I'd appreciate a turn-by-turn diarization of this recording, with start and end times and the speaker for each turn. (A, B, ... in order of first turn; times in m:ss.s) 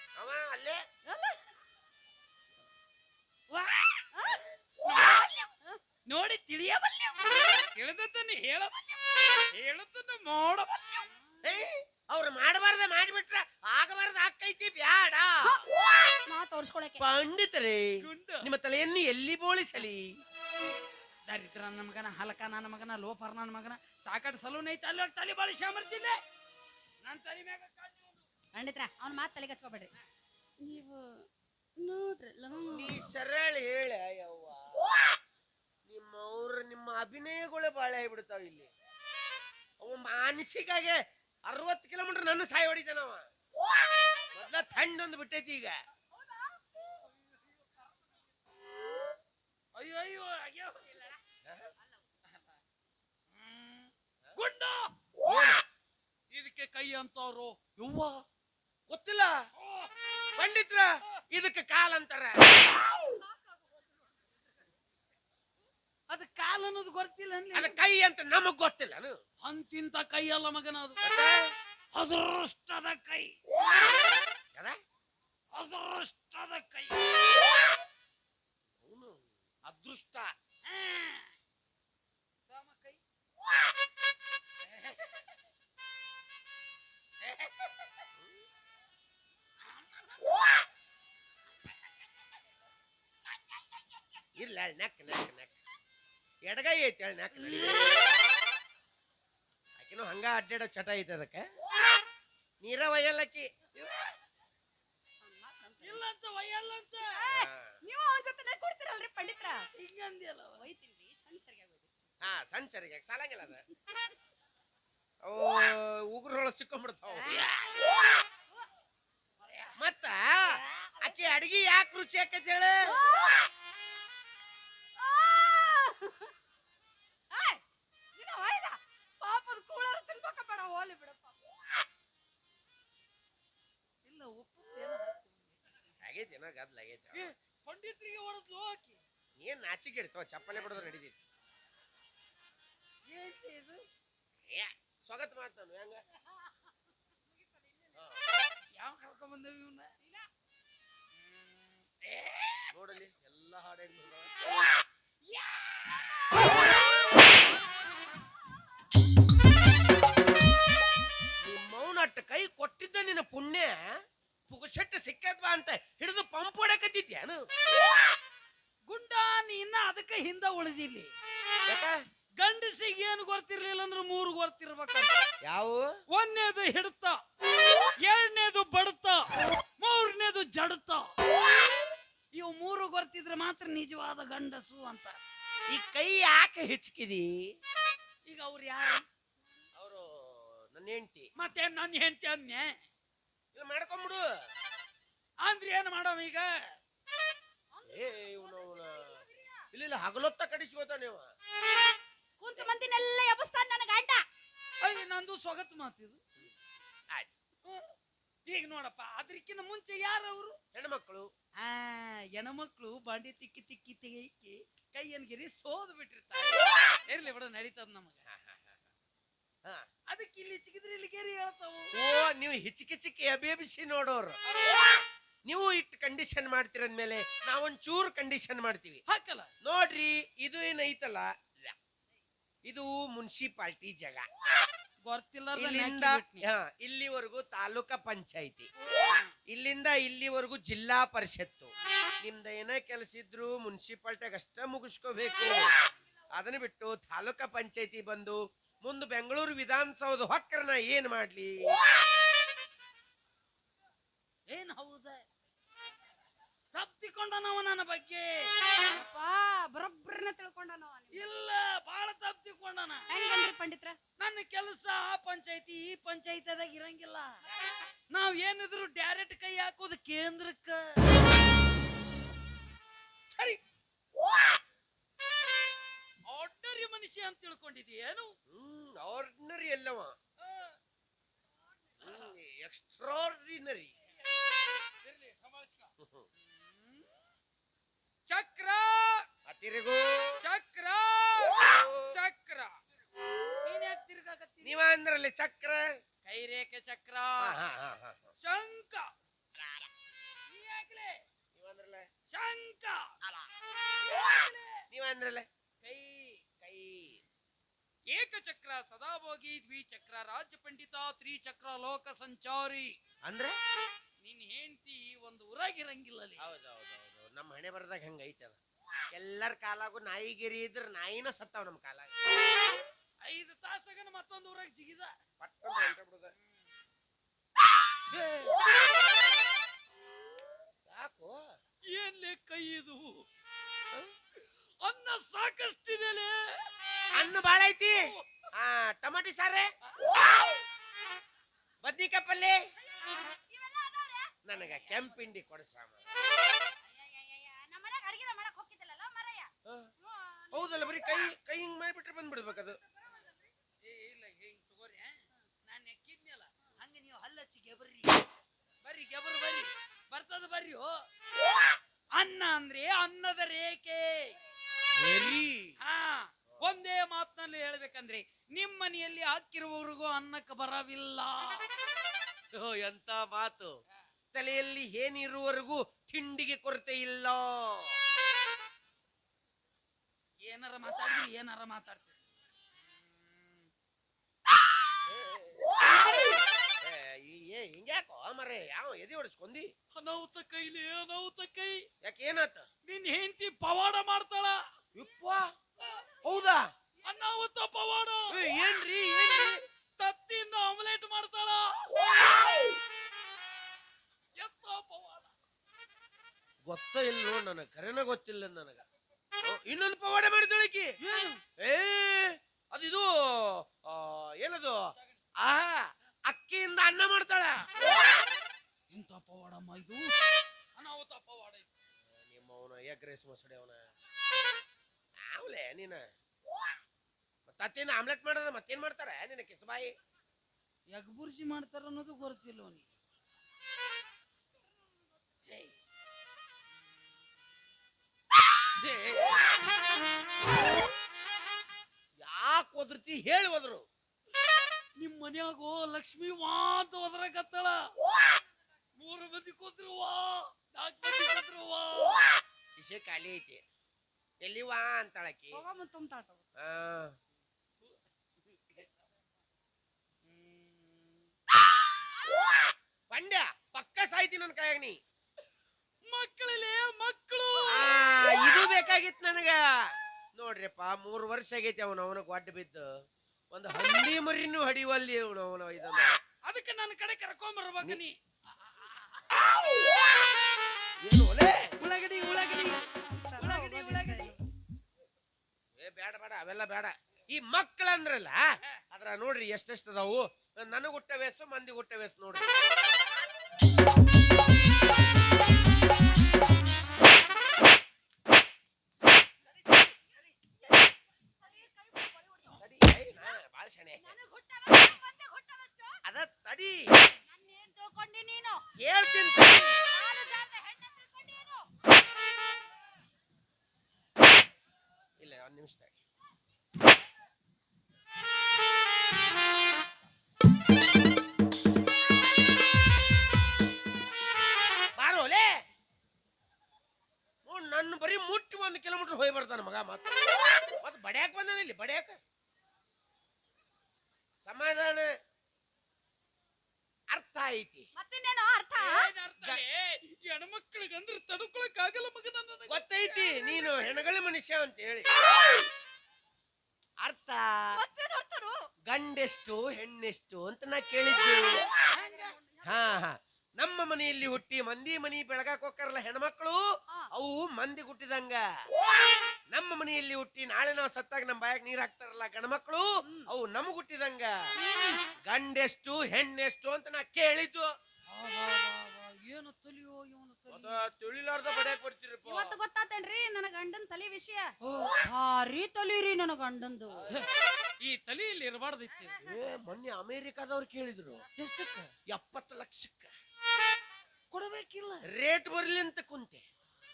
0:00.2-0:00.8 A
0:01.1-0:01.5 B
0:03.5-0:04.4 B
0:04.8-0:05.3 C
0:05.0-0:05.8 B
0:06.1-0:11.1 C
0:11.4-0:15.6 A
0:15.4-0:17.0 B
0:17.0-0:20.0 A
0:18.0-0:18.5 C
0:21.3-0:26.2 C
0:27.0-0:28.2 C
0:28.5-0:29.9 B
0:30.6-0:31.2 B
0:31.8-0:33.0 B
0:32.5-0:34.8 A
0:35.8-0:38.7 A
0:39.8-0:43.2 A
0:44.3-0:45.7 A
0:49.7-0:51.1 C
0:53.3-0:55.0 C
0:55.2-0:55.6 A
0:56.3-0:58.2 C
0:58.9-0:59.4 A
0:59.6-0:59.9 C
1:00.4-1:02.6 A
1:03.0-1:03.4 B
1:06.1-1:07.8 C
1:07.5-1:09.2 A
1:09.4-1:11.0 C
1:11.0-1:11.5 A
1:11.9-1:13.3 C
1:15.5-1:17.1 C
1:18.8-1:20.3 A
1:20.6-1:21.3 C
1:22.5-1:23.0 C
1:34.4-1:35.5 A
1:36.5-1:38.0 A
1:37.3-1:38.2 C
1:39.8-1:41.4 A
1:42.6-1:43.5 A
1:45.2-1:46.0 B
1:45.8-1:47.1 C
1:47.1-1:49.6 B
1:47.3-1:47.8 A
1:49.8-1:50.6 C
1:50.6-1:51.9 B
1:52.2-1:53.6 A
1:55.2-1:57.6 A
1:57.1-1:57.5 B
1:59.8-2:03.0 A
2:00.5-2:01.2 B
2:02.8-2:03.5 B
2:05.0-2:06.3 B
2:07.3-2:07.6 B
2:08.2-2:11.4 B
2:14.0-2:15.6 C
2:16.0-2:17.2 A
2:17.1-2:19.0 C
2:19.4-2:21.2 A
2:23.1-2:23.8 C
2:24.5-2:26.0 A
2:27.5-2:27.9 B
2:27.9-2:28.2 A
2:28.7-2:29.9 C
2:31.1-2:32.6 C
2:32.7-2:34.3 A
2:41.4-2:43.9 A
2:44.5-2:47.4 A
2:48.9-2:51.1 C
2:51.7-2:51.9 A
2:52.4-2:55.1 C
2:55.4-2:55.9 A
2:56.1-2:57.2 C
2:58.0-2:59.2 C
2:59.8-3:01.1 C
3:02.3-3:05.2 C
3:05.7-3:07.3 A
3:08.2-3:09.0 C
3:09.8-3:11.3 A
3:11.4-3:12.7 C
3:13.5-3:14.2 A
3:15.4-3:16.7 C
3:17.7-3:19.7 B
3:17.8-3:19.1 A
3:19.7-3:21.3 A
3:22.4-3:24.2 B
3:24.8-3:26.2 C
3:28.5-3:30.6 C
3:30.7-3:31.3 A
3:31.6-3:38.2 C
3:38.3-3:38.8 A
3:40.1-3:41.9 C
3:42.0-3:44.4 A
3:44.5-3:44.9 C
3:45.4-3:49.0 A
3:49.1-3:49.5 C
3:49.6-3:51.7 A
3:52.7-3:54.2 A
3:55.0-3:56.4 C
3:55.5-3:58.7 A
3:58.9-3:59.3 C
3:59.5-4:01.7 A
4:02.2-4:05.6 A
4:06.3-4:11.8 A
4:14.5-4:15.2 C
4:16.7-4:18.5 C
4:18.8-4:21.3 B
4:21.1-4:23.0 C
4:23.1-4:24.0 B
4:24.2-4:27.4 C
4:28.1-4:31.0 C
4:33.3-4:33.6 C
4:36.3-4:38.3 C
4:38.5-4:40.2 A
4:40.4-4:40.7 C
4:42.0-4:42.3 C
4:42.0-4:43.9 A
4:45.0-4:45.9 C
4:46.0-4:46.3 A
4:46.4-4:47.1 C
4:48.3-4:49.2 C
4:49.4-4:50.4 A
4:50.4-4:52.7 C
4:51.6-4:52.2 A
4:53.6-4:54.8 C
4:54.6-4:55.9 A
4:56.2-4:57.6 C
4:57.4-4:58.3 A
4:58.4-4:59.1 C
4:59.6-4:59.9 A
5:00.5-5:01.2 C
5:01.5-5:02.1 A
5:02.3-5:03.1 C
5:04.0-5:04.8 C
5:04.9-5:05.5 A
5:05.8-5:06.4 C
5:06.6-5:07.2 A
5:08.1-5:12.9 C
5:13.2-5:13.5 A
5:14.2-5:16.4 C
5:16.4-5:18.6 A
5:19.1-5:22.1 A
5:23.2-5:25.1 C
5:25.4-5:26.3 A
5:28.1-5:28.6 A
5:30.9-5:31.4 A
5:31.8-5:33.2 C
5:34.8-5:36.6 C
5:37.1-5:38.0 A
5:38.0-5:38.4 C
5:38.6-5:39.7 A
5:41.8-5:42.6 A
5:42.8-5:44.4 B
5:44.4-5:46.0 A
5:44.6-5:45.2 C
5:46.6-5:51.3 B
5:49.6-5:49.9 A
5:50.5-5:52.8 A
5:53.8-5:58.2 C
5:58.8-6:01.0 C
6:02.1-6:04.3 C
6:04.9-6:05.8 A
6:05.8-6:11.6 C
6:12.5-6:13.7 A
6:14.3-6:18.0 A
6:20.4-6:22.2 C
6:22.8-6:23.7 C
6:25.1-6:25.5 A
6:26.8-6:29.7 A
6:29.9-6:31.8 C
6:32.0-6:32.6 A
6:32.8-6:34.6 C
6:34.9-6:35.5 A
6:35.8-6:36.1 C
6:36.2-6:36.7 A
6:37.0-6:38.4 C
6:38.3-6:39.6 A
6:40.0-6:41.9 C
6:44.4-6:45.3 C
6:46.7-6:48.8 A
6:49.4-6:50.9 A
6:51.0-6:51.4 C
6:51.6-6:54.8 A
6:55.4-6:57.7 A
6:58.9-7:00.1 C
7:00.8-7:01.7 C
7:02.2-7:03.8 A
7:05.2-7:06.0 A
7:07.5-7:09.9 A
7:10.9-7:12.9 C
7:18.8-7:19.4 A
7:22.2-7:23.8 A
7:25.0-7:27.8 C
7:29.0-7:32.3 C
7:32.7-7:33.6 A
7:34.4-7:35.6 A
7:35.5-7:36.4 B
7:36.6-7:37.1 A
7:40.2-7:41.2 C
7:43.1-7:45.0 A
7:46.0-7:48.1 C
7:47.7-7:49.6 A
7:50.3-7:52.9 A
7:53.5-7:56.2 A
7:56.4-7:58.1 C
8:01.0-8:01.7 A
8:01.8-8:04.3 C
8:03.1-8:04.4 B
8:05.8-8:12.5 A
8:20.8-8:22.6 B
8:22.6-8:24.1 A
8:24.0-8:26.0 B
8:26.0-8:26.9 A
8:27.3-8:28.6 B
8:28.8-8:29.8 A
8:29.8-8:31.7 B
8:35.2-8:36.0 A
8:45.0-8:45.5 A
8:47.4-8:50.3 A
8:50.8-8:52.2 A
8:54.4-8:55.1 A
8:57.1-8:57.9 A
8:58.0-8:59.1 B
8:58.8-9:02.8 C
9:02.7-9:05.1 A
9:03.2-9:03.6 B
9:07.0-9:07.4 A
9:07.7-9:08.6 B
9:08.9-9:11.6 A
9:11.8-9:13.0 B
9:11.9-9:12.4 C
9:12.6-9:16.6 A
9:17.1-9:18.4 A
9:19.5-9:24.3 A
9:24.6-9:25.0 B
9:25.2-9:27.7 A
9:28.1-9:30.9 C
9:30.5-9:32.5 A
9:32.2-9:37.1 B
9:34.6-9:35.0 C
9:37.8-9:39.2 C
9:38.9-9:39.4 B
9:39.2-9:41.2 A
9:41.4-9:41.9 C
9:42.1-9:43.1 A
9:44.3-9:45.0 C
9:45.1-9:46.4 A